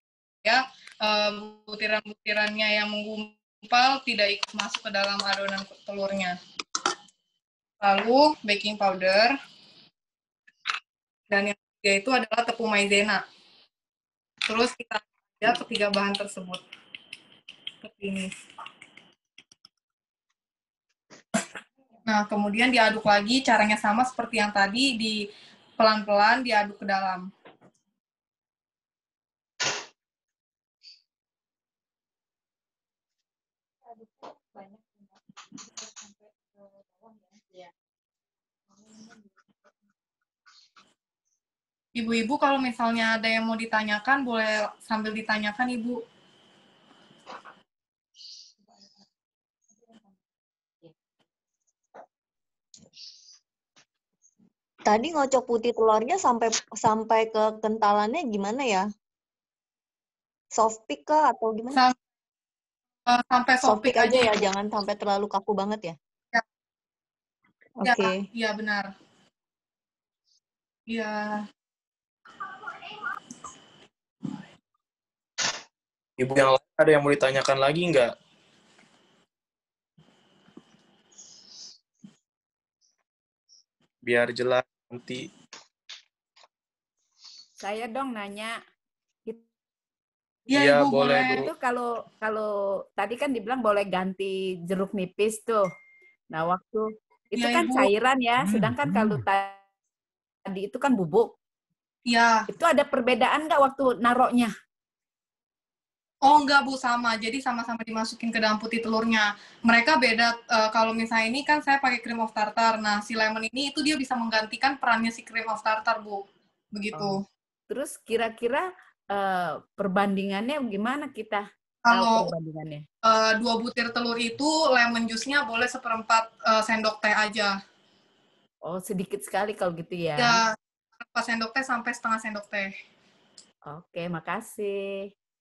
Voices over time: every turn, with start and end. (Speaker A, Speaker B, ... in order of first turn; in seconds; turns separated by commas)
Speaker A: 0.5-6.4, Speaker A: 7.8-9.3, Speaker A: 11.3-13.2, Speaker A: 14.5-16.6, Speaker A: 17.8-18.3, Speaker A: 22.1-25.2, Speaker A: 25.8-27.3, Speaker A: 42.0-46.0, Speaker B: 54.9-58.9, Speaker B: 60.5-61.8, Speaker A: 63.1-64.5, Speaker B: 63.6-66.0, Speaker B: 67.8-68.2, Speaker A: 67.8-68.9, Speaker A: 70.9-71.5, Speaker C: 76.2-78.1, Speaker C: 84.0-85.3, Speaker D: 87.6-88.5, Speaker A: 90.5-91.4, Speaker C: 90.5-91.5, Speaker D: 91.5-95.7, Speaker D: 96.3-99.6, Speaker A: 97.4-97.9, Speaker D: 100.5-101.3, Speaker A: 102.1-102.5, Speaker D: 102.5-104.5, Speaker A: 106.2-117.2, Speaker D: 117.7-122.8, Speaker A: 121.9-122.3, Speaker A: 123.0-127.6, Speaker D: 128.7-130.4, Speaker A: 130.2-130.6, Speaker A: 131.1-132.7, Speaker D: 133.7-135.1